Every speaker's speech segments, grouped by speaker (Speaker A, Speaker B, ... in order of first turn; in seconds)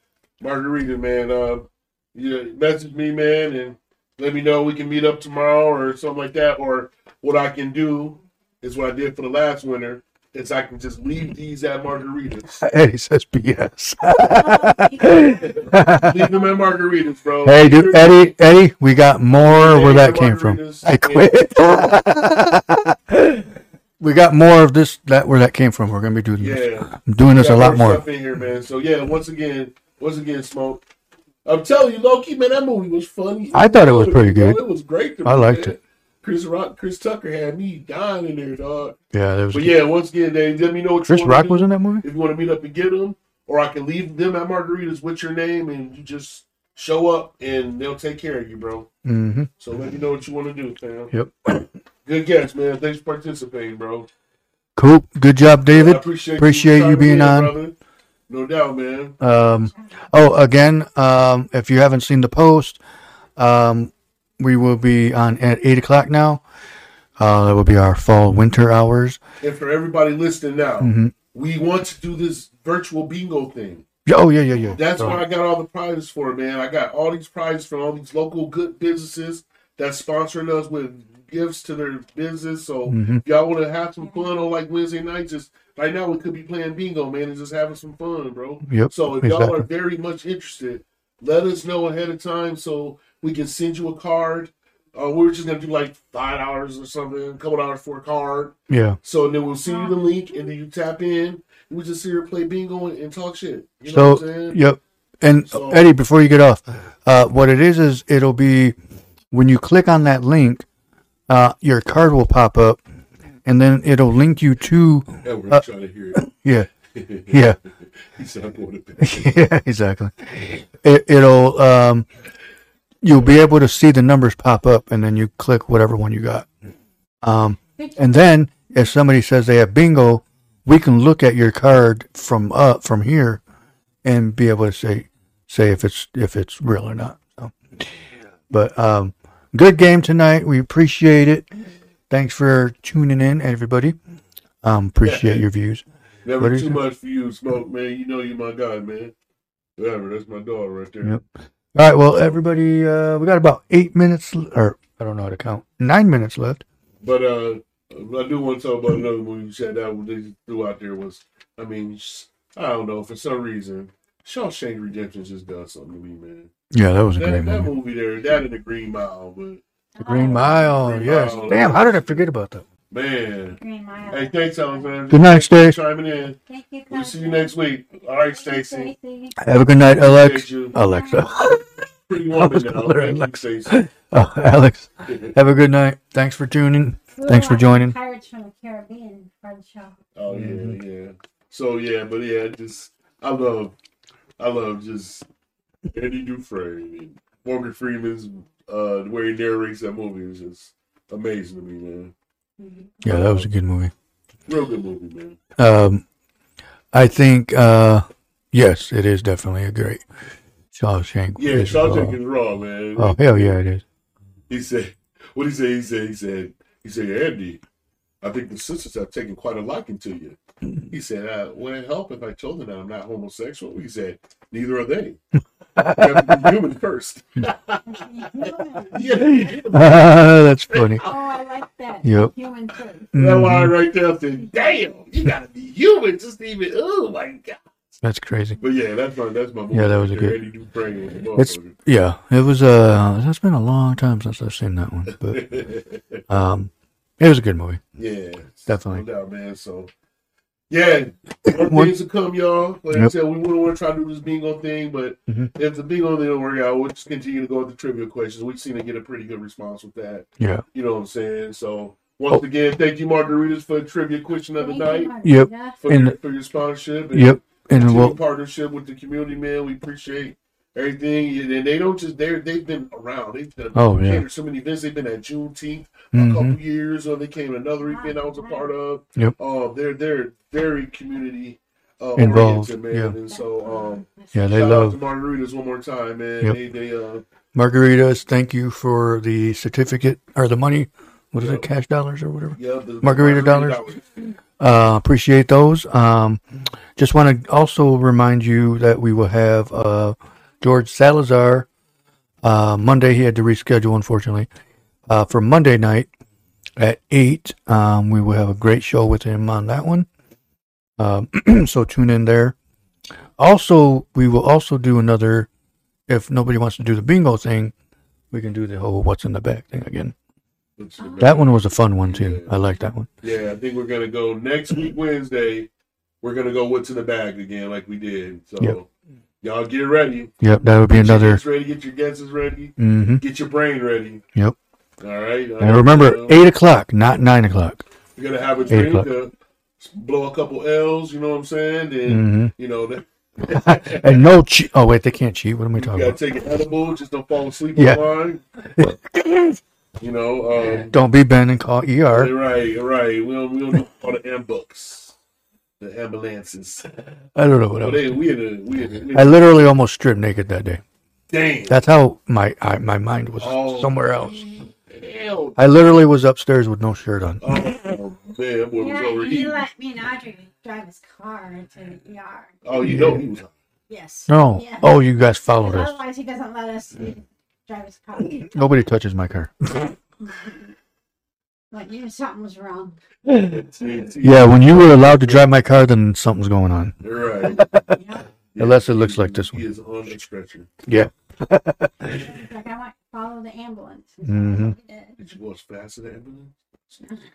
Speaker A: 0.4-12.6, 15.2-18.3, 19.3-21.3, 26.4-30.8, 31.4-39.0, 39.5-48.9, 49.6-51.1, 52.0-54.1, 55.7-57.7, 58.3-59.2, 69.4-73.8, 74.7-104.6, 105.5-105.9, 115.2-116.2, 116.9-117.5, 118.0-119.4, 145.0-145.4, 146.2-149.1, 149.8-151.2, 157.0-166.5, 167.2-169.6, 170.2-172.2, 172.9-173.6, 174.1-176.4, 176.9-178.9, 179.8-180.7, 182.1-183.8, 185.1-185.3, 190.2-193.7, 194.4-195.2, 195.9-202.1, 203.1-203.5, 204.5-205.4, 211.4-213.6, 214.5-217.6, 218.2-220.4, 220.9-225.2, 225.9-231.3, 233.1-237.6, 238.6-241.7, 245.1-246.2, 247.9-249.9, 250.7-265.1, 265.8-287.2, 291.4-291.7, 292.6-294.0, 320.8-322.6, 323.2-325.7, 326.2-328.9, 329.4-330.3, 330.9-334.2, 335.0-336.4, 338.1-344.3, 345.8-348.4, 350.0-350.9, 352.1-355.1, 355.8-357.1, 357.8-359.6, 361.3-361.9, 363.4-365.6, 367.4-369.6, 372.6-373.5, 383.4-385.5, 387.0-387.7, 388.5-390.7, 395.2-396.5
Speaker B: 12.6-16.2, 17.4-23.4, 24.0-28.1, 33.5-34.6, 35.2-35.7, 39.1-39.8, 41.0-42.0, 49.0-49.5, 51.1-51.7, 54.8-57.5, 59.2-62.8, 63.4-66.4, 67.2-69.2, 70.8-71.1, 74.0-75.2, 82.9-83.2, 88.7-89.7, 98.7-99.0, 103.9-108.8, 109.3-110.6, 111.3-112.8, 113.4-115.6, 116.1-116.7, 117.3-117.6, 119.0-122.1, 123.0-126.5, 127.2-133.4, 134.0-137.5, 138.5-141.5, 142.1-143.9, 144.6-145.8, 146.4-146.8, 151.0-156.6, 166.7-167.7, 170.0-172.6, 175.1-175.8, 179.4-187.9, 190.3-190.8, 203.0-203.9, 205.6-206.0, 206.9-210.0, 210.7-212.2, 213.0-213.8, 225.8-226.6, 229.2-231.0, 232.0-232.3, 233.1-233.7, 238.0-238.6, 239.7-240.4, 241.4-245.4, 246.3-247.8, 248.7-249.0, 251.4-251.9, 260.4-260.6, 265.2-266.2, 267.1-268.2, 273.7-274.2, 276.1-276.6, 282.1-283.1, 284.3-285.0, 287.5-293.8, 294.6-296.4, 296.9-301.7, 302.4-304.5, 305.1-306.1, 306.8-310.1, 311.0-312.6, 313.4-315.5, 316.1-317.7, 318.3-320.1, 321.2-323.1, 330.4-331.4, 332.8-333.2, 335.6-337.8, 338.7-339.1, 342.1-342.5, 343.5-346.2, 347.7-348.1, 348.6-349.6, 350.9-352.3, 357.3-358.2, 359.1-360.8, 361.7-364.4, 365.6-367.5, 372.8-373.2, 374.3-375.9, 378.5-379.9, 384.2-388.0, 388.6-389.6, 390.8-392.3, 394.2-394.7
Speaker C: 14.2-15.9, 16.5-16.7, 99.7-99.9, 127.8-128.2, 169.9-171.6, 173.6-175.0, 176.4-179.4, 180.7-181.6, 187.1-189.9, 202.6-202.9, 227.9-229.1, 231.0-233.1, 264.6-265.8, 277.9-278.7, 283.2-284.3, 321.0-321.6, 368.8-372.6, 373.9-375.0, 375.6-378.8, 381.7-383.0, 387.9-388.3, 392.1-395.2